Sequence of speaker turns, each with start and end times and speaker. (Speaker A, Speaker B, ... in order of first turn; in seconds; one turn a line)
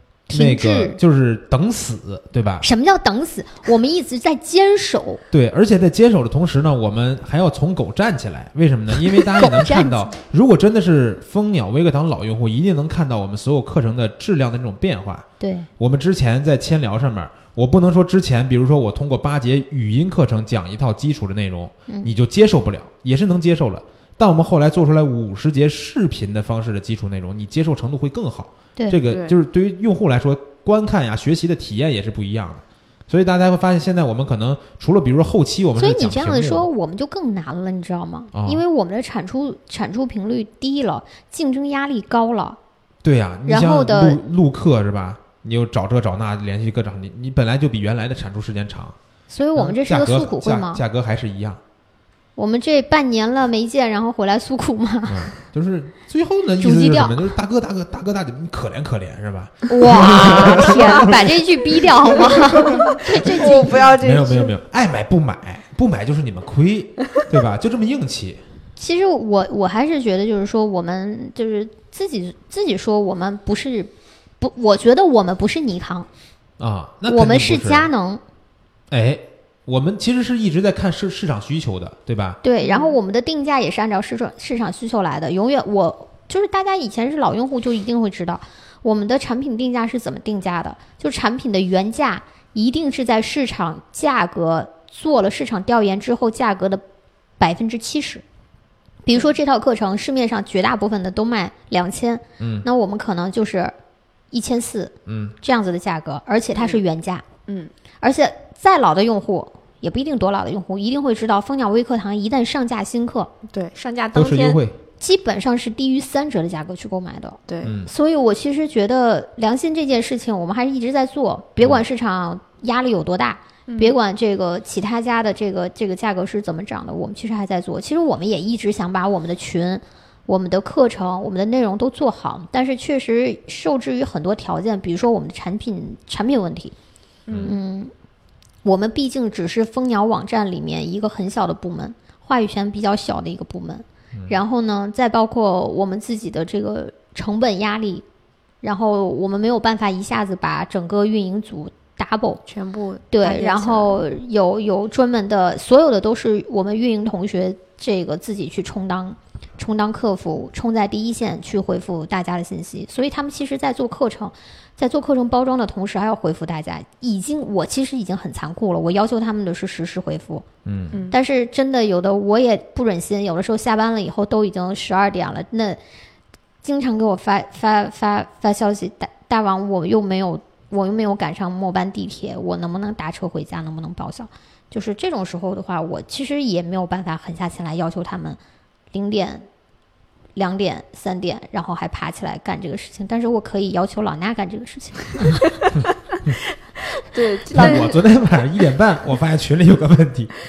Speaker A: 0.3-1.0
Speaker B: 0.3-2.7
Speaker A: 2.6-5.2
Speaker B: 5.3-15.3
Speaker A: 9.0-10.1
Speaker A: 15.4-15.7
Speaker B: 15.8-36.7
Speaker C: 29.1-29.4
Speaker A: 35.8-42.6
Speaker B: 38.3-38.6
Speaker B: 43.0-49.0
Speaker A: 43.5-44.2
Speaker A: 49.3-50.8
Speaker B: 49.5-51.6
Speaker A: 52.4-55.3
Speaker B: 55.1-68.4
Speaker A: 56.6-57.3
Speaker A: 59.7-63.9
Speaker C: 62.7-64.5
Speaker A: 68.8-76.1
Speaker B: 76.6-77.9
Speaker A: 77.1-78.2
Speaker B: 78.9-82.4
Speaker A: 82.4-96.8
Speaker C: 82.6-83.0
Speaker A: 97.4-98.2
Speaker A: 99.0-103.8
Speaker B: 102.4-102.7
Speaker A: 104.3-107.2
Speaker B: 105.1-105.4
Speaker C: 106.5-106.8
Speaker C: 107.5-107.7
Speaker A: 108.0-113.3
Speaker C: 113.5-114.6
Speaker B: 114.1-114.8
Speaker A: 115.0-136.7
Speaker C: 117.5-117.7
Speaker B: 117.6-117.9
Speaker C: 123.7-124.0
Speaker C: 137.3-137.6
Speaker A: 137.4-137.9
Speaker A: 138.6-148.0
Speaker A: 148.6-152.4
Speaker C: 152.5-154.0
Speaker A: 153.1-170.5
Speaker B: 170.7-171.0
Speaker C: 170.9-171.2
Speaker A: 171.1-175.8
Speaker A: 176.6-188.4
Speaker A: 188.9-189.5
Speaker A: 190.4-195.7
Speaker C: 197.1-198.0
Speaker B: 197.5-200.3
Speaker A: 197.5-197.9